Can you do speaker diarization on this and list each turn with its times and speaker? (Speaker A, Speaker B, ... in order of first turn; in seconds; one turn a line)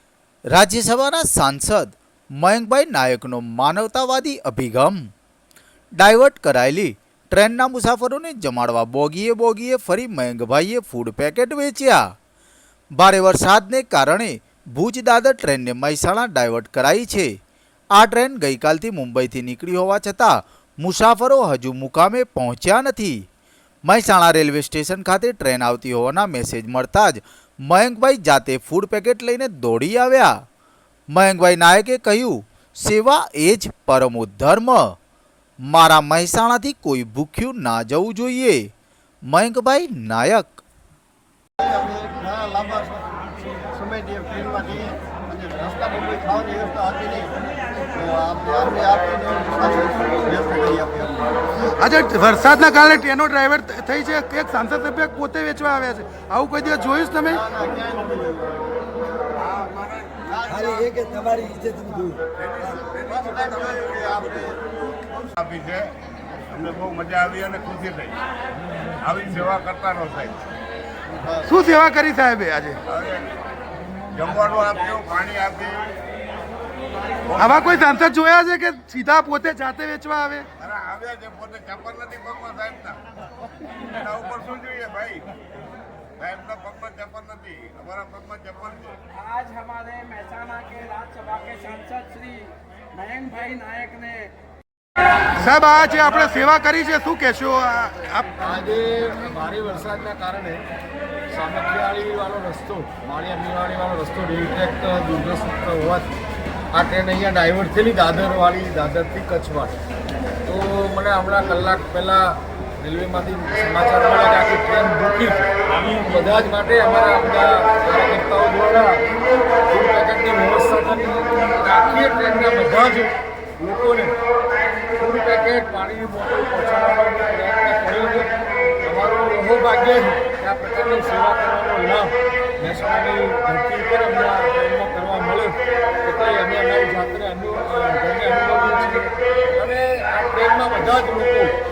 Speaker A: 0.5-5.1
Speaker A: 6.0-12.1
Speaker A: 12.9-17.4
Speaker A: 17.9-23.3
Speaker A: 23.9-30.3
Speaker A: 31.1-35.0
Speaker A: 35.7-38.7
Speaker A: 39.3-40.6
Speaker B: 41.6-43.2
Speaker B: 43.7-47.3
Speaker B: 48.0-51.2
Speaker C: 51.8-57.4
Speaker B: 57.5-58.7
Speaker D: 59.4-60.9
Speaker B: 60.4-61.1
Speaker E: 61.0-62.2
Speaker D: 62.4-64.5
Speaker D: 65.3-65.9
Speaker D: 66.5-68.2
Speaker D: 69.0-70.4
Speaker C: 71.5-72.8
Speaker D: 72.9-73.3
Speaker D: 74.1-75.9
Speaker D: 77.3-77.6
Speaker C: 77.4-80.5
Speaker D: 80.6-83.0
Speaker D: 83.7-85.3
Speaker D: 86.2-89.0
Speaker E: 89.1-94.3
Speaker C: 95.4-98.3
Speaker F: 98.4-100.6
Speaker F: 101.3-106.1
Speaker F: 106.7-109.8
Speaker F: 110.5-119.0
Speaker F: 119.7-124.2
Speaker F: 125.0-141.5